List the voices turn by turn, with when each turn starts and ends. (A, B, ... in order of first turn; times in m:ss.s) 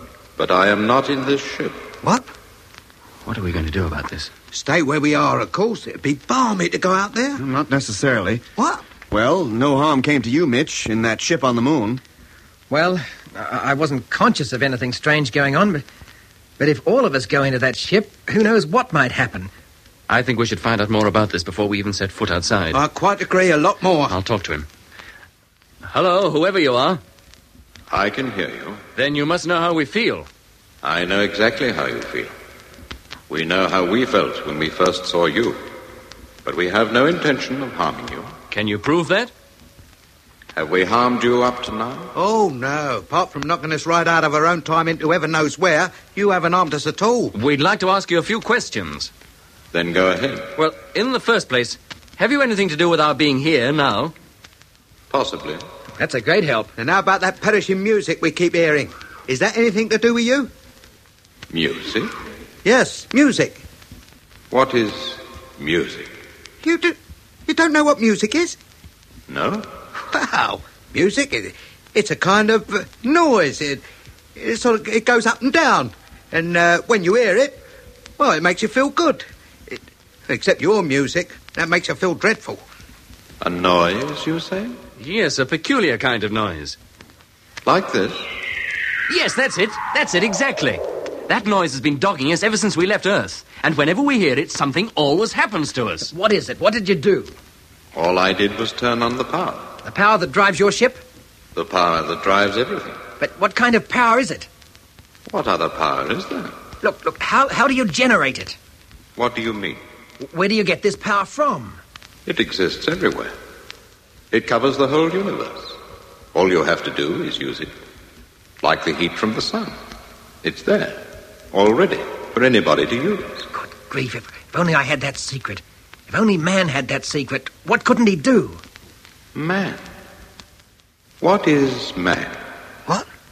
0:00.4-0:01.8 A
0:03.2-0:04.3 B
0:04.5-0:07.4 C
0:07.4-0:08.4 D
0:08.6-0:08.8 C
0:09.1-0:12.0 D
0:12.7-0:15.8 E
0:16.6-0:19.5 E
0:20.1-0:22.8 B
0:22.7-0:24.1 C
0:24.1-0:24.7 B
0:25.8-0:27.0 B
0:27.9-0:28.8 A
0:29.0-0:30.3 B
0:30.8-0:32.3 A
0:33.3-0:35.6 A
0:36.4-0:38.3 A
0:38.5-0:39.3 B
0:40.5-0:42.1 A
0:42.1-0:47.3 C
0:47.3-0:49.1 B
0:49.7-0:50.5 A
0:50.6-0:54.1 B
0:55.1-0:55.6 A
0:56.0-0:56.7 E
0:56.8-1:00.5 C
1:01.5-1:02.1 A
1:02.6-1:03.6 C
1:04.5-1:06.1 A
1:06.6-1:07.0 C
1:07.5-1:08.6 C
1:09.3-1:09.7 A
1:10.0-1:13.8 C
1:14.4-1:17.6 C
1:18.2-1:22.6 C
1:23.4-1:24.8 A
1:25.0-1:26.8 B
1:27.6-1:28.2 A
1:29.1-1:36.1 B
1:36.1-1:37.3 E
1:37.9-1:39.7 A
1:39.8-1:41.0 E
1:41.5-1:43.0 A
1:43.2-1:44.5 E
1:45.3-1:46.5 A
1:46.8-1:48.6 E
1:49.2-1:49.8 A
1:50.2-1:51.8 E
1:52.2-1:53.3 A
1:54.3-1:55.8 A
1:56.3-1:57.7 A
1:58.6-1:59.8 A
2:00.4-2:03.4 A
2:03.5-2:08.6 E
2:09.3-2:09.8 A
2:11.2-2:12.4 A